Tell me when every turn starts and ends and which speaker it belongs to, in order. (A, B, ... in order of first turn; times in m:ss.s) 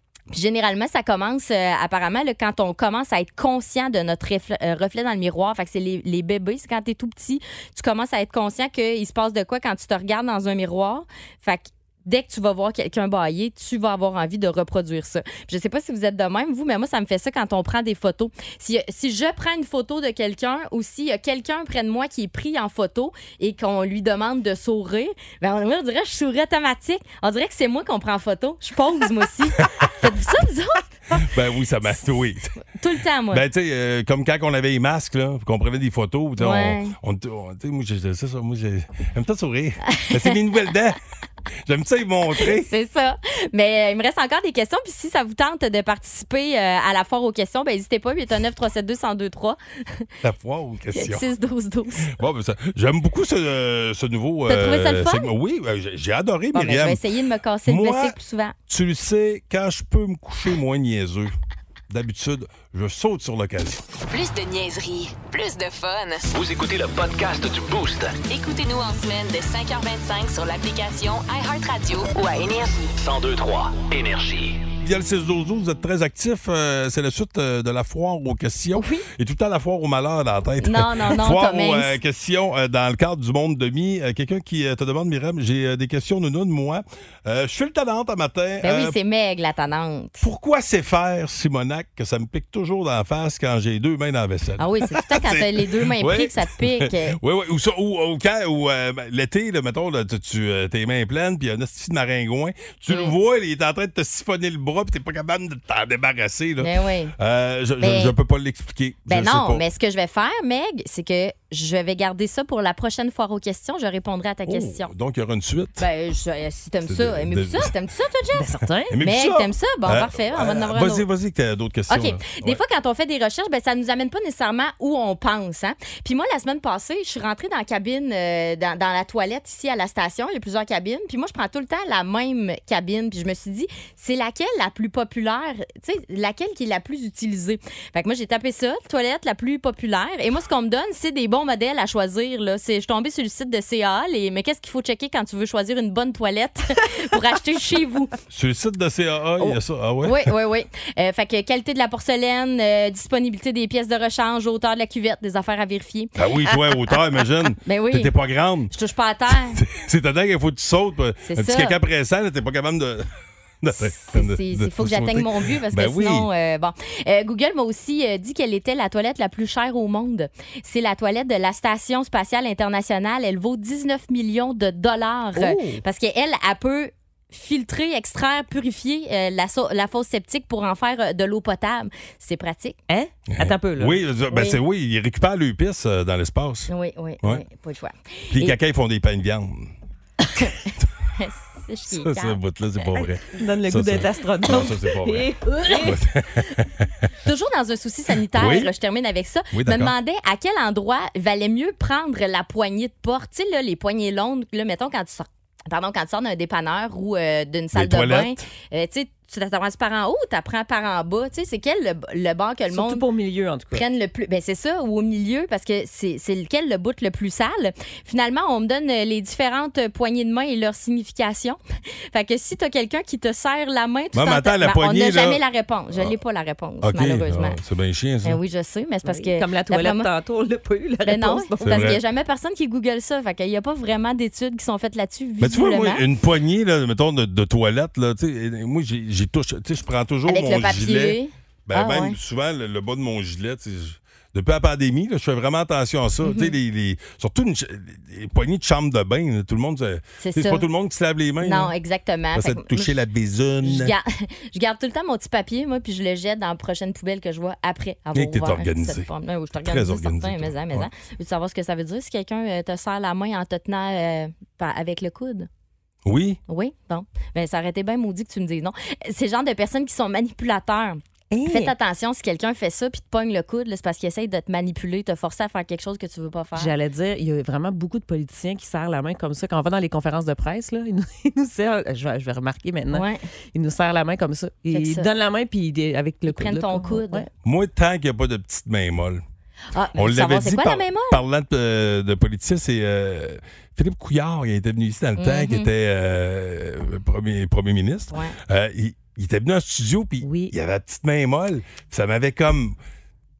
0:00.3-0:31.3 A
0:31.2-0:32.5 B
0:32.7-0:33.4 A
0:33.3-0:41.0 B
0:36.4-0:36.9 A
0:39.9-0:40.3 A
0:41.6-0:42.7 B
0:42.4-0:50.1 A
0:50.2-0:51.3 B
0:51.0-0:52.1 A
0:52.0-0:57.0 B
0:54.5-0:55.3 A
0:56.5-0:58.6 A
0:57.6-0:58.2 B
0:58.7-1:01.3 B
1:01.9-1:03.8 B
1:04.1-1:06.3 C
1:06.3-1:08.2 D
1:08.2-1:12.9 C
1:13.0-1:14.6 D
1:14.8-1:29.0 B
1:18.8-1:19.1 A
1:20.6-1:22.0 A
1:28.6-1:30.3 A
1:30.2-1:49.6 B
1:34.6-1:37.2 A
1:42.9-1:43.1 A
1:46.6-1:47.1 A
1:47.8-1:48.2 A
1:49.1-1:54.9 A
1:54.5-1:55.9 B
1:55.8-2:01.0 A
1:56.8-1:57.7 B
1:58.3-1:59.0 E
1:58.9-2:02.6 B
2:01.9-2:28.1 A
2:28.3-2:30.3 B
2:29.4-2:36.1 A
2:36.2-2:38.7 B
2:37.6-2:38.1 A
2:38.7-2:39.6 A
2:39.6-2:43.1 B
2:41.3-2:41.8 A
2:43.6-2:46.3 B
2:43.7-3:02.8 A
2:55.4-2:55.8 E
3:02.9-3:04.0 E
3:03.3-3:06.7 B
3:04.3-3:04.6 A
3:06.7-3:08.6 A
3:08.3-3:09.7 B
3:10.3-3:13.1 A
3:11.9-3:16.9 B
3:13.4-3:16.0 E
3:17.2-3:33.0 A
3:18.3-3:18.7 B
3:19.5-3:19.9 B
3:27.7-3:28.4 B
3:32.7-3:33.8 E
3:33.7-3:41.6 A
3:42.1-3:47.6 A
3:44.1-3:45.4 B
3:46.8-3:48.4 B
3:48.2-3:50.1 A
3:49.0-3:52.0 E
3:51.0-3:56.0 A
3:51.6-3:52.0 B
3:55.4-4:11.7 B
4:00.3-4:02.2 A
4:06.2-4:06.5 A
4:10.2-4:10.6 A
4:11.4-4:13.0 A
4:12.3-4:14.0 B
4:13.6-4:25.5 A
4:18.1-4:20.9 B
4:26.0-4:26.4 B
4:26.5-4:36.7 A
4:31.3-4:31.7 E
4:36.6-4:47.3 E
4:42.9-4:43.2 A
4:44.7-4:45.1 A
4:46.3-4:47.3 A
4:47.4-4:49.2 B
4:49.7-4:51.2 A
4:50.0-5:02.8 B
4:55.2-4:55.7 A
4:58.1-4:58.4 A
5:00.2-5:00.5 E